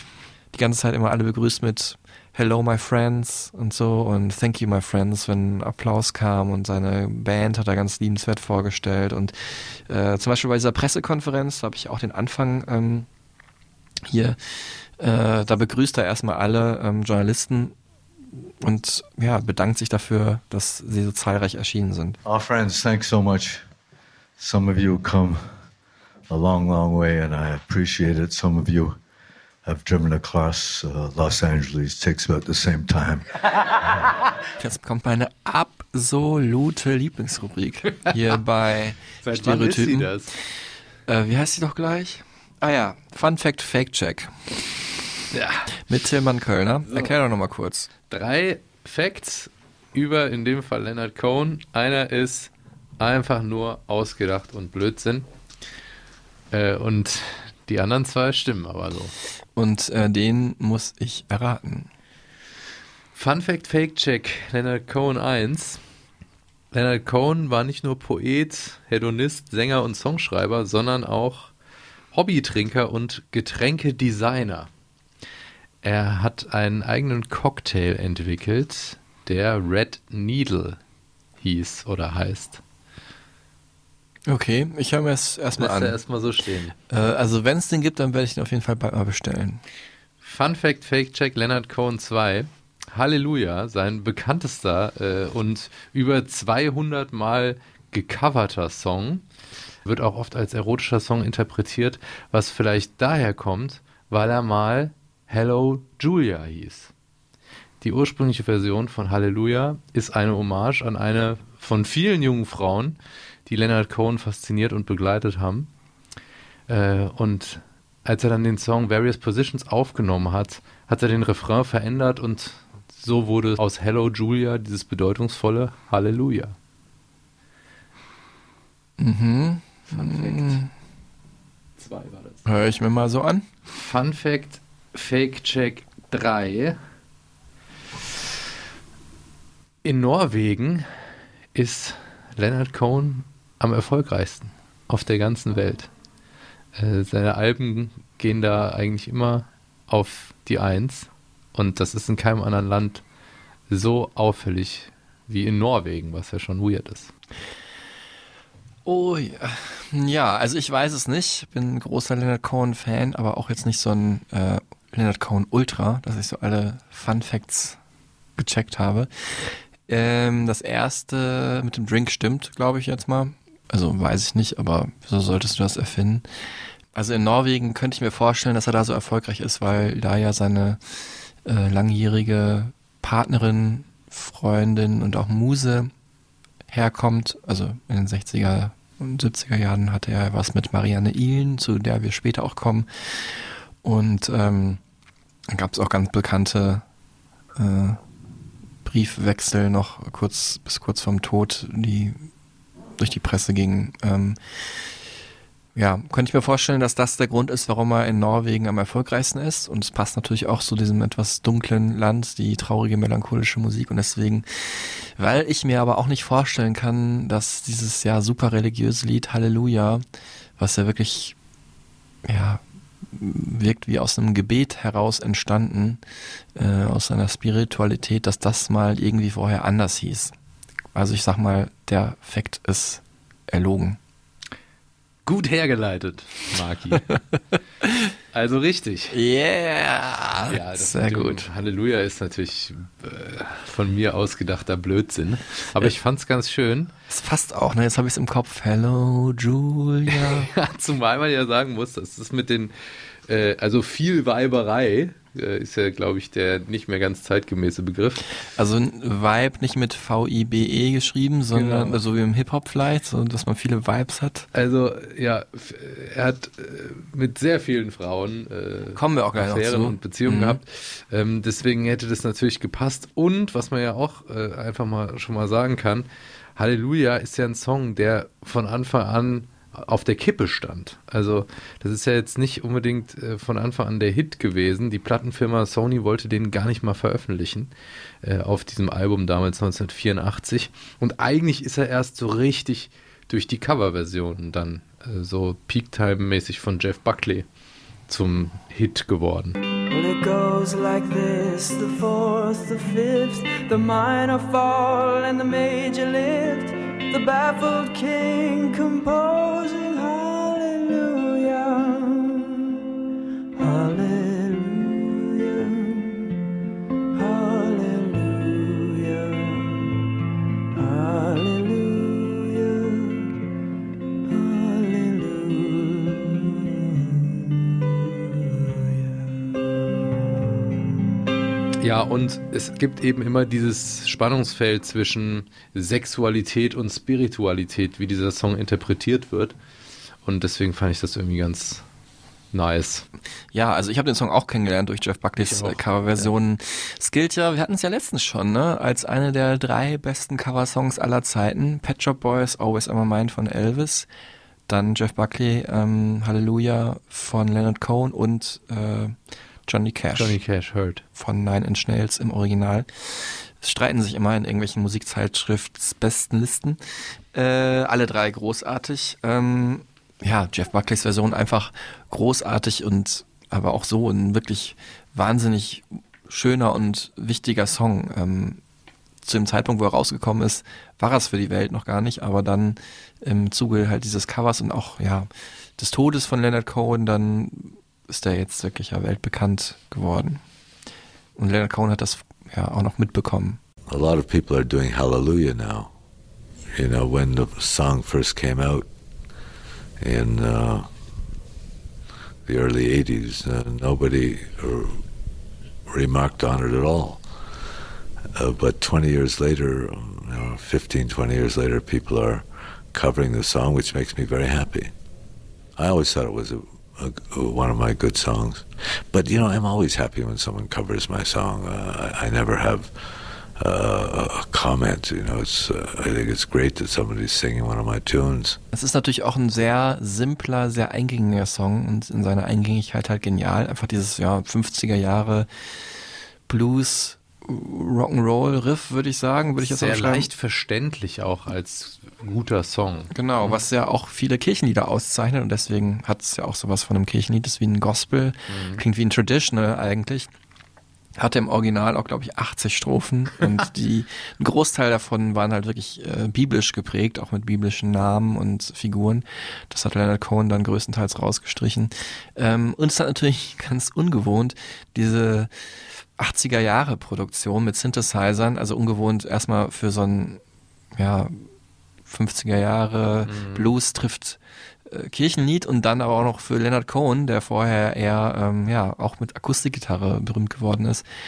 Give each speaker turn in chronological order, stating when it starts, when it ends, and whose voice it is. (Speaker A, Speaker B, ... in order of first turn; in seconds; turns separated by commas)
Speaker A: 0.5-13.1, Speaker A: 14.0-14.4, Speaker A: 15.0-17.7, Speaker A: 18.6-22.2, Speaker B: 22.2-23.6, Speaker B: 24.4-25.6, Speaker B: 26.3-29.0, Speaker B: 29.6-33.2, Speaker A: 34.6-40.1, Speaker C: 39.2-40.3, Speaker A: 41.1-44.7, Speaker C: 45.3-45.7, Speaker A: 45.9-47.9, Speaker C: 46.9-47.1, Speaker C: 48.1-55.3, Speaker C: 56.5-59.1, Speaker A: 59.6-61.9, Speaker C: 63.1-65.8, Speaker C: 66.7-71.5, Speaker C: 72.1-74.7, Speaker C: 75.8-80.8, Speaker C: 81.4-82.6, Speaker A: 84.2-86.0, Speaker C: 85.6-86.7, Speaker A: 86.9-89.6, Speaker C: 90.2-99.2, Speaker C: 99.8-106.9, Speaker C: 107.8-115.7, Speaker C: 116.7-126.5, Speaker A: 129.0-130.7, Speaker C: 129.9-130.6, Speaker C: 131.8-132.4, Speaker A: 132.4-133.4, Speaker C: 133.7-136.8, Speaker C: 139.8-145.9, Speaker C: 146.8-153.0, Speaker C: 153.7-157.1, Speaker A: 158.8-167.8, Speaker A: 168.4-176.3, Speaker A: 176.9-180.8, Speaker A: 181.4-185.9, Speaker A: 186.7-194.8, Speaker A: 195.5-196.8, Speaker A: 197.6-198.0, Speaker A: 198.8-202.2, Speaker A: 203.0-204.4, Speaker A: 205.7-220.0, Speaker A: 220.6-221.4, Speaker A: 222.2-226.0, Speaker A: 226.6-230.3, Speaker A: 230.9-234.0, Speaker C: 235.2-237.1, Speaker A: 237.8-238.1, Speaker C: 238.3-239.2, Speaker A: 239.1-241.5, Speaker C: 240.5-246.9, Speaker A: 247.1-250.5, Speaker C: 250.1-252.7, Speaker C: 253.3-258.2, Speaker A: 258.6-264.5, Speaker C: 261.5-262.0, Speaker C: 264.5-287.7, Speaker A: 268.9-270.6, Speaker C: 288.2-297.4, Speaker C: 298.1-299.6, Speaker D: 299.9-312.8, Speaker D: 313.6-316.3, Speaker D: 317.2-319.9, Speaker D: 320.8-323.3, Speaker D: 324.3-329.6, Speaker C: 331.8-339.6, Speaker C: 340.2-341.8, Speaker C: 342.5-343.1, Speaker A: 343.5-354.1, Speaker C: 345.4-346.3, Speaker A: 354.7-359.1, Speaker A: 359.6-360.4, Speaker C: 360.1-361.1, Speaker A: 361.1-366.8, Speaker A: 367.3-378.6, Speaker A: 379.2-390.4, Speaker A: 391.4-393.6, Speaker E: 393.9-395.9, Speaker E: 396.7-398.9, Speaker E: 400.0-400.9, Speaker E: 402.4-405.0, Speaker E: 405.9-407.2, Speaker E: 408.4-414.9, Speaker E: 415.8-422.9, Speaker E: 423.6-428.6, Speaker A: 428.7-435.5, Speaker A: 436.5-440.3, Speaker C: 439.6-443.6, Speaker A: 443.1-450.3, Speaker C: 448.5-448.8, Speaker A: 451.1-465.5, Speaker A: 466.1-470.4, Speaker A: 470.9-471.4, Speaker A: 472.1-481.1, Speaker C: 473.2-473.7